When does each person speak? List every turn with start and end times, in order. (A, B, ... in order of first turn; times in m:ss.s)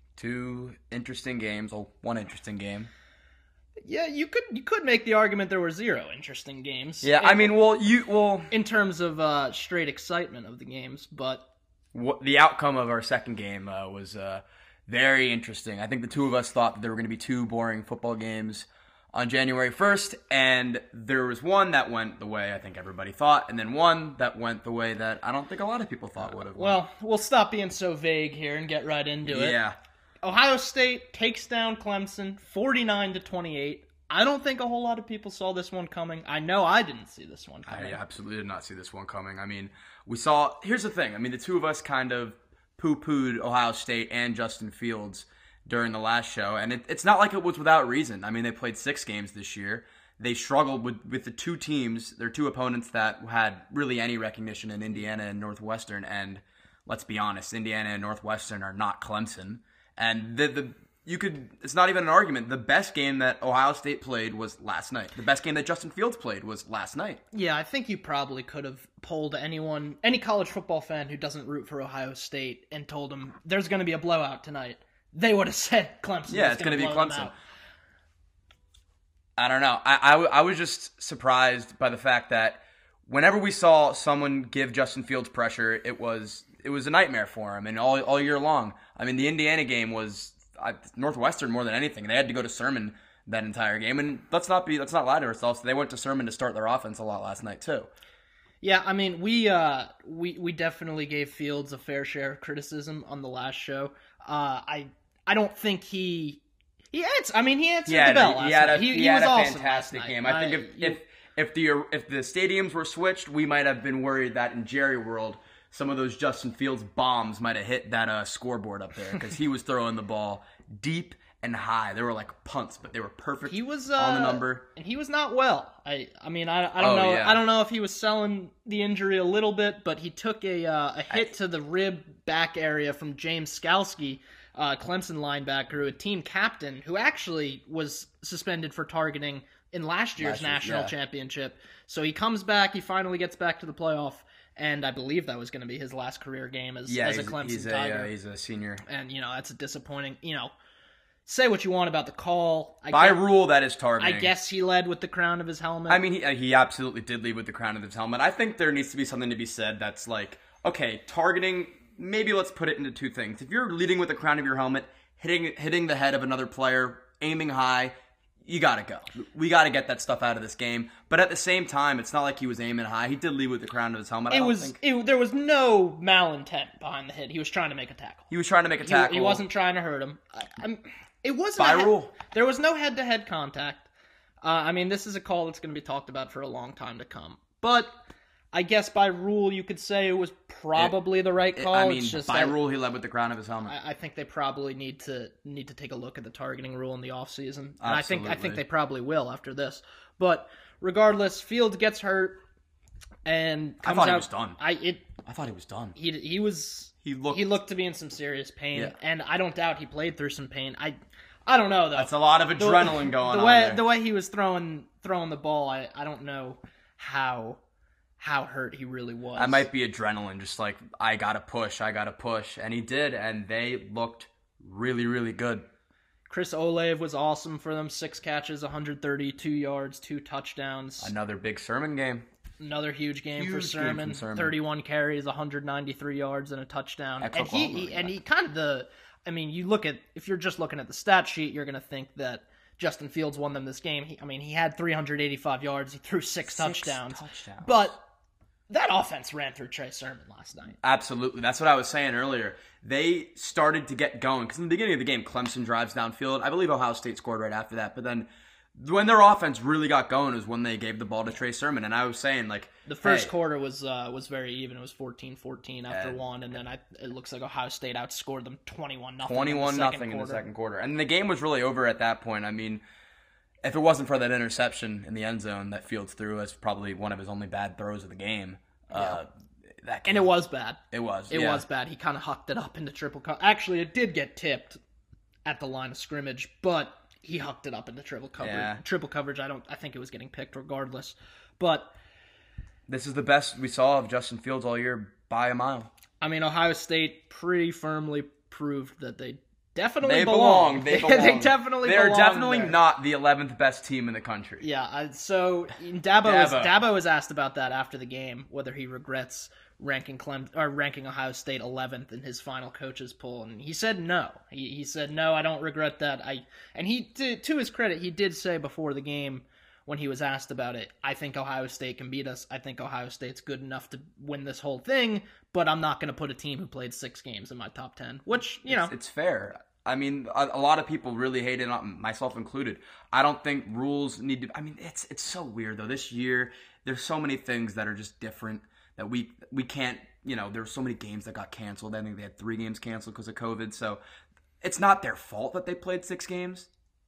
0:00.2-0:02.9 A
0:03.8-0:07.6 B
0:07.0-0:08.5 A
0:08.5-0:11.5 B
0:11.9-0:26.8 A
0:26.2-0:29.6 B
0:29.2-0:29.8 A
0:30.2-0:38.0 B
0:37.7-1:07.2 A
1:07.3-1:17.4 B
1:16.3-1:17.3 A
1:19.4-1:37.9 A
1:38.6-1:51.0 B
1:47.9-2:04.6 A
2:03.4-2:28.1 B
2:06.8-2:07.4 A
2:20.2-2:20.9 A
2:26.9-2:28.8 A
2:28.8-2:30.5 B
2:31.3-2:33.2 B
2:32.9-2:34.3 A
2:34.0-2:36.0 B
2:35.9-2:54.8 A
2:54.3-2:58.3 B
2:58.3-2:59.4 A
2:58.8-3:03.9 B
3:01.6-3:02.1 A
3:04.4-3:08.0 B
3:08.5-3:12.6 B
3:11.6-3:13.7 A
3:13.6-3:22.4 B
3:17.8-3:18.6 A
3:23.3-3:25.1 B
3:23.8-3:24.6 A
3:25.2-3:26.0 A
3:26.0-3:37.6 B
3:27.0-3:27.6 A
3:32.0-3:33.8 A
3:38.2-3:39.7 B
3:39.4-3:45.7 A
3:46.3-3:51.1 B
3:51.0-3:52.3 A
3:52.6-4:08.0 B
3:53.4-3:54.6 A
3:57.2-3:58.1 A
4:06.5-4:07.8 A
4:08.7-4:10.8 B
4:10.8-4:23.3 A
4:22.9-4:30.5 B
4:25.9-4:26.2 A
4:29.2-4:32.8 A
4:33.6-4:40.3 A
4:38.9-4:39.2 B
4:40.1-4:44.8 B
4:40.9-4:41.6 A
4:45.4-4:51.9 B
4:48.4-4:48.8 A
4:52.9-4:55.9 A
4:56.2-5:02.8 B
5:00.0-5:04.6 A
5:04.6-5:28.9 B
5:06.2-5:06.8 A
5:28.6-5:44.0 A
5:44.6-5:46.7 A